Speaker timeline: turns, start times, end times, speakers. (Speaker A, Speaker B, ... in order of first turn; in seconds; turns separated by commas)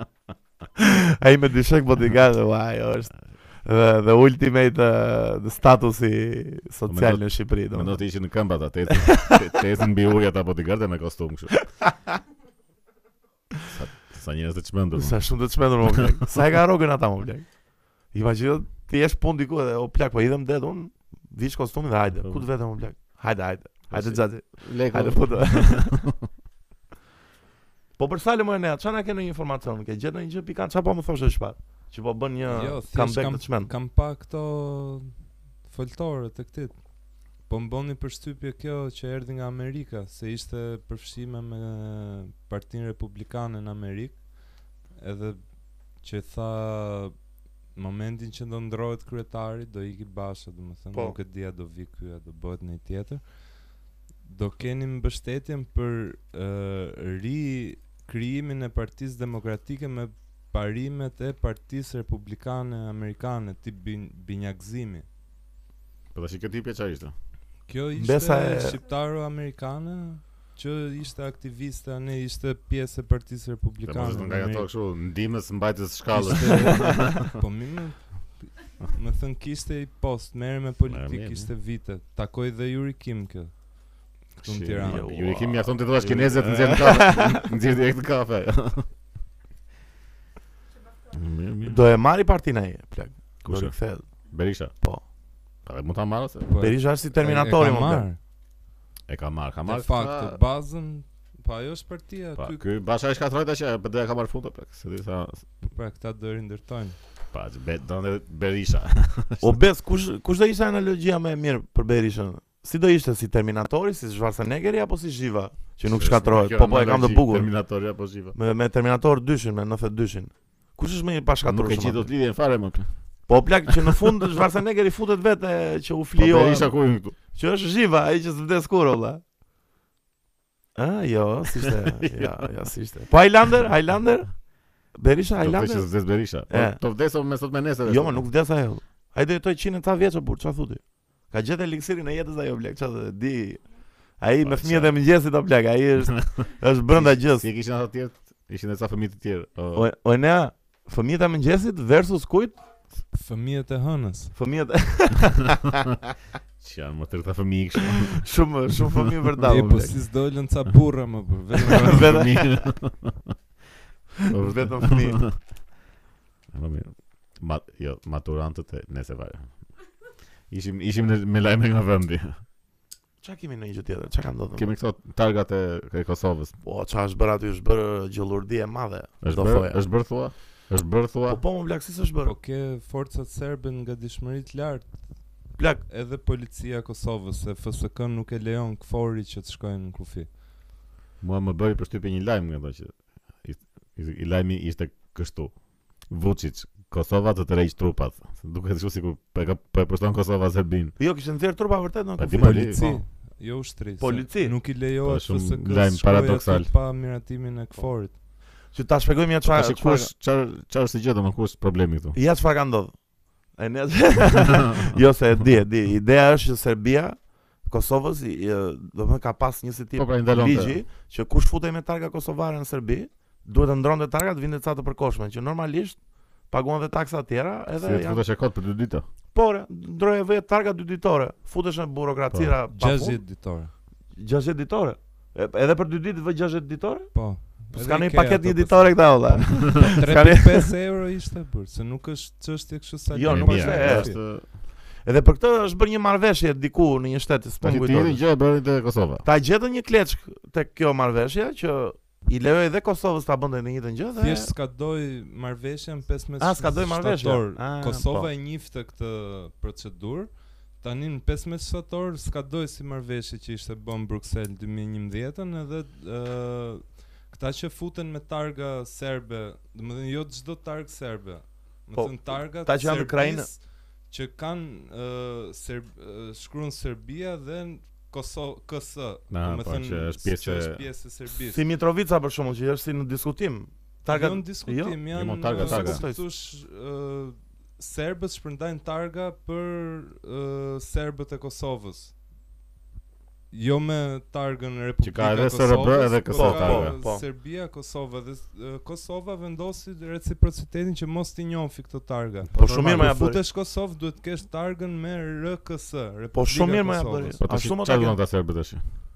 Speaker A: 0.8-8.0, Speaker B: 6.9-11.6, Speaker A: 8.9-9.5, Speaker A: 11.5-12.1, Speaker B: 13.7-15.3, Speaker A: 14.9-26.1, Speaker B: 23.9-26.1, Speaker A: 28.0-33.7, Speaker C: 32.5-47.1, Speaker C: 47.7-65.0, Speaker A: 50.9-51.2, Speaker B: 66.1-67.1, Speaker C: 67.7-74.7, Speaker A: 68.0-68.8, Speaker B: 73.8-77.3, Speaker C: 76.1-85.1, Speaker A: 76.8-77.1, Speaker B: 80.9-81.5, Speaker B: 84.4-88.9, Speaker A: 84.8-87.5, Speaker B: 91.1-91.8, Speaker A: 91.6-94.2, Speaker B: 93.4-94.7, Speaker A: 94.7-95.0, Speaker B: 95.6-96.5, Speaker C: 96.5-98.2, Speaker A: 96.6-98.1, Speaker B: 99.1-100.4, Speaker C: 99.7-102.6, Speaker B: 102.4-105.4, Speaker C: 105.7-107.0, Speaker B: 107.3-109.6, Speaker A: 109.4-117.5, Speaker B: 115.9-118.3, Speaker A: 118.3-122.1, Speaker B: 121.5-123.9, Speaker A: 123.3-129.2, Speaker B: 126.2-127.2, Speaker A: 130.8-136.8, Speaker B: 132.0-132.4, Speaker B: 135.4-138.2, Speaker A: 137.8-147.5, Speaker B: 144.4-145.0, Speaker B: 146.9-149.8, Speaker A: 149.7-152.6, Speaker C: 153.1-154.4, Speaker A: 154.3-155.9, Speaker B: 156.6-159.0, Speaker A: 157.9-160.0, Speaker C: 159.4-162.3, Speaker A: 161.7-162.7, Speaker B: 161.9-163.3, Speaker B: 164.2-165.4, Speaker A: 164.3-165.2, Speaker B: 166.5-169.7, Speaker B: 170.5-172.4, Speaker A: 173.2-174.7, Speaker B: 174.5-176.5, Speaker A: 176.6-179.8, Speaker B: 179.2-181.4, Speaker A: 181.3-182.3, Speaker C: 182.2-185.3, Speaker A: 185.6-185.8, Speaker C: 185.9-190.3, Speaker B: 191.2-200.9, Speaker A: 201.0-203.0, Speaker B: 202.2-202.8, Speaker C: 202.4-208.2, Speaker A: 204.0-204.5, Speaker B: 205.0-206.7, Speaker A: 207.7-208.1, Speaker A: 208.7-210.1, Speaker B: 209.4-212.2, Speaker A: 212.1-213.0, Speaker A: 213.5-226.0, Speaker B: 219.9-220.8, Speaker A: 226.5-228.2, Speaker B: 227.8-229.1, Speaker A: 229.3-233.2, Speaker C: 232.7-233.7, Speaker A: 234.1-240.7, Speaker C: 237.1-244.2, Speaker A: 243.1-244.1, Speaker B: 243.2-244.5, Speaker A: 245.0-248.2, Speaker B: 247.6-249.2, Speaker A: 249.2-254.5, Speaker C: 254.2-281.6, Speaker A: 256.4-258.3, Speaker A: 271.9-273.5, Speaker B: 279.3-280.8, Speaker A: 281.4-286.2, Speaker C: 284.1-292.1, Speaker B: 285.1-286.0, Speaker C: 293.5-307.4, Speaker B: 295.0-297.0, Speaker A: 296.3-297.2, Speaker A: 302.5-303.4, Speaker B: 302.5-303.1, Speaker A: 306.3-308.2, Speaker B: 307.4-308.8